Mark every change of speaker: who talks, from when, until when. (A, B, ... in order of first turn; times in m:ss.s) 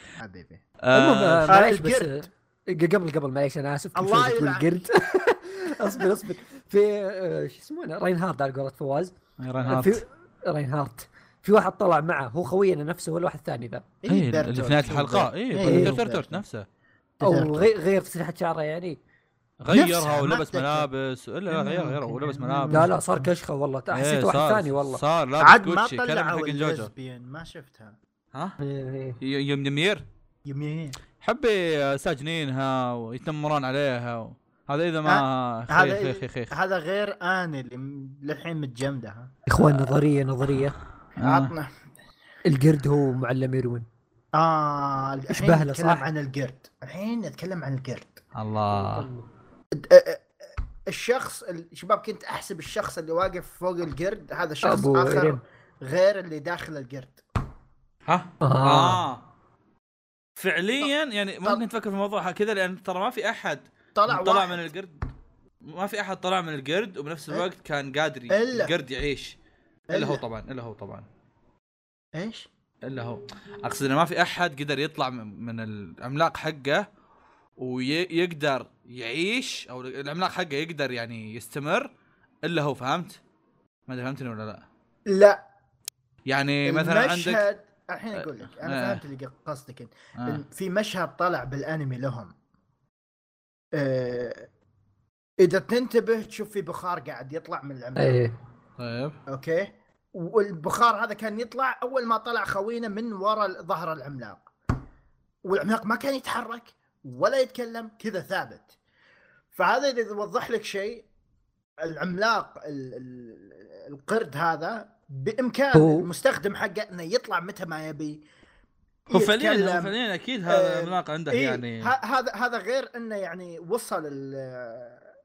0:00.2-0:00.6 A
0:00.8-0:01.5 B
0:00.9-0:13.8 C
0:01.5-0:02.3 A
0:04.0-0:05.3 A
0:05.8-0:06.1 A
0:09.4-0:10.0 B
0:14.0-0:16.4 A
0:14.1-0:16.6 B
0:15.6-0:16.0 C
0:17.2-0:17.7 A
0:17.2-0:19.0 C
0:19.6-0:22.9 B
0:19.7-0:20.9 A
0:21.5-0:23.3 A
0:22.7-0:25.0 C
0:23.9-0:26.9 B
0:25.4-0:28.0 A
0:28.6-0:29.2 C
0:29.2-0:30.0 B
0:30.5-0:31.0 A
0:31.2-0:36.5 B
0:35.0-0:39.3 A
0:39.5-0:40.8 C
0:41.2-0:41.5 B
0:41.2-0:41.7 A
0:42.5-0:43.8 C
0:44.4-0:48.2 A
0:45.3-0:46.1 C
0:48.4-0:49.1 B
0:48.7-0:49.3 C
0:49.7-0:57.2 A
0:54.6-0:55.4 C
0:58.1-0:59.2 B
0:58.4-0:59.0 C
1:00.4-1:05.0 B
1:04.0-1:04.6 A
1:05.6-1:09.4 B
1:08.3-1:08.7 A
1:09.9-1:10.2 A
1:09.9-1:11.0 B
1:12.2-1:12.5 A
1:12.8-1:16.8 B
1:17.6-1:21.9 B
1:22.4-1:23.2 B
1:23.9-1:24.6 B
1:25.1-1:25.4 A
1:26.3-1:27.4 B
1:26.7-1:32.3 A
1:28.2-1:29.0 B
1:30.2-1:30.4 B
1:33.8-1:34.5 A
1:35.4-1:38.2 A
1:38.0-1:38.3 C
1:38.8-1:39.2 B
1:39.3-1:44.5 A
1:45.4-1:48.7 A
1:49.5-1:51.1 A
1:51.8-1:58.2 A
1:55.8-1:56.1 C
1:59.1-1:59.9 A
1:59.1-2:01.9 B
2:00.5-2:05.1 A